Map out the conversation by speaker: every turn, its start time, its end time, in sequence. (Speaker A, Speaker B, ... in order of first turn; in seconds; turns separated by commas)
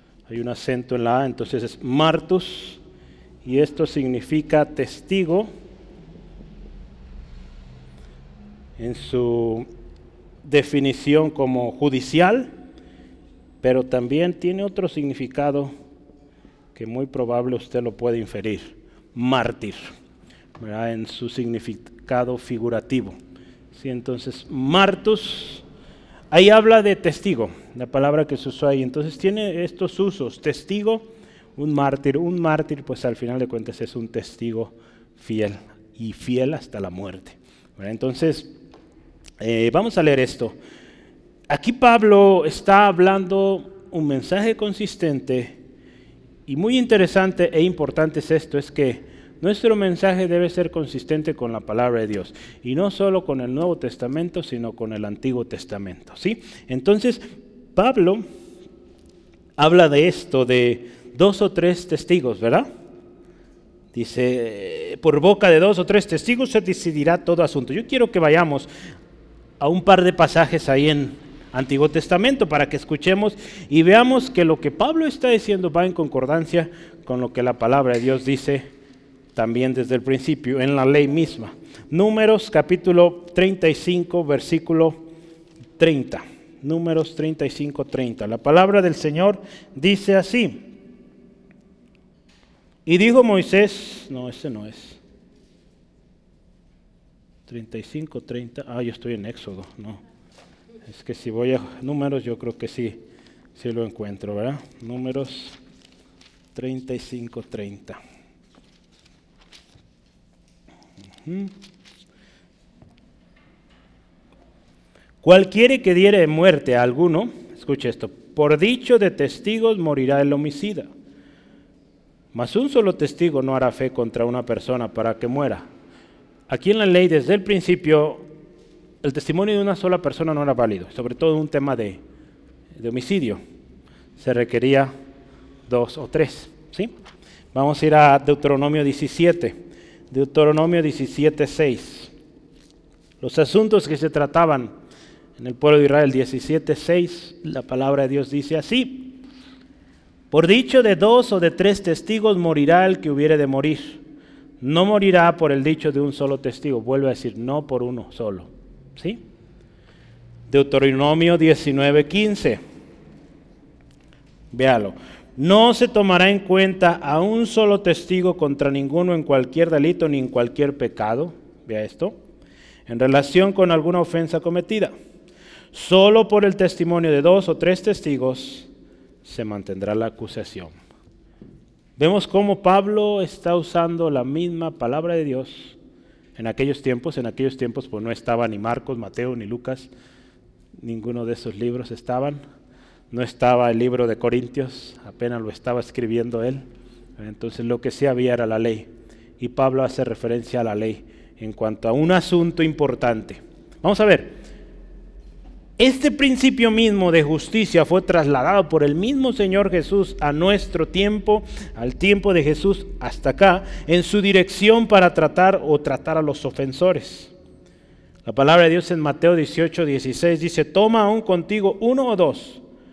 Speaker A: 0.3-2.8, Speaker A: 3.4-5.5, Speaker A: 8.8-9.7, Speaker A: 10.4-12.5, Speaker A: 13.6-15.7, Speaker A: 16.8-19.9, Speaker A: 20.6-23.2, Speaker A: 23.7-25.6, Speaker A: 26.3-31.1, Speaker A: 31.6-38.5, Speaker A: 39.4-40.6, Speaker A: 41.5-45.6, Speaker A: 46.5-57.2, Speaker A: 57.8-58.2, Speaker A: 59.6-62.7, Speaker A: 63.9-68.7, Speaker A: 69.6-78.7, Speaker A: 79.3-85.0, Speaker A: 85.8-90.7, Speaker A: 92.9-95.0, Speaker A: 97.5-100.0, Speaker A: 100.8-103.0, Speaker A: 103.6-105.6, Speaker A: 106.5-108.0, Speaker A: 111.2-111.5, Speaker A: 115.2-120.9, Speaker A: 122.3-125.7, Speaker A: 126.5-128.3, Speaker A: 129.0-132.0, Speaker A: 132.8-133.4, Speaker A: 134.2-134.9, Speaker A: 135.7-136.9, Speaker A: 137.5-139.6, Speaker A: 140.1-142.1, Speaker A: 143.2-144.7, Speaker A: 145.4-149.2, Speaker A: 150.3-154.0, Speaker A: 154.6-159.2, Speaker A: 160.5-162.6, Speaker A: 164.5-172.2, Speaker A: 172.9-174.9, Speaker A: 175.7-178.7, Speaker A: 179.2-180.7, Speaker A: 182.0-185.8, Speaker A: 186.4-189.9, Speaker A: 190.8-192.4, Speaker A: 193.1-196.6, Speaker A: 197.2-198.9, Speaker A: 199.4-204.4, Speaker A: 205.8-217.3, Speaker A: 218.2-222.6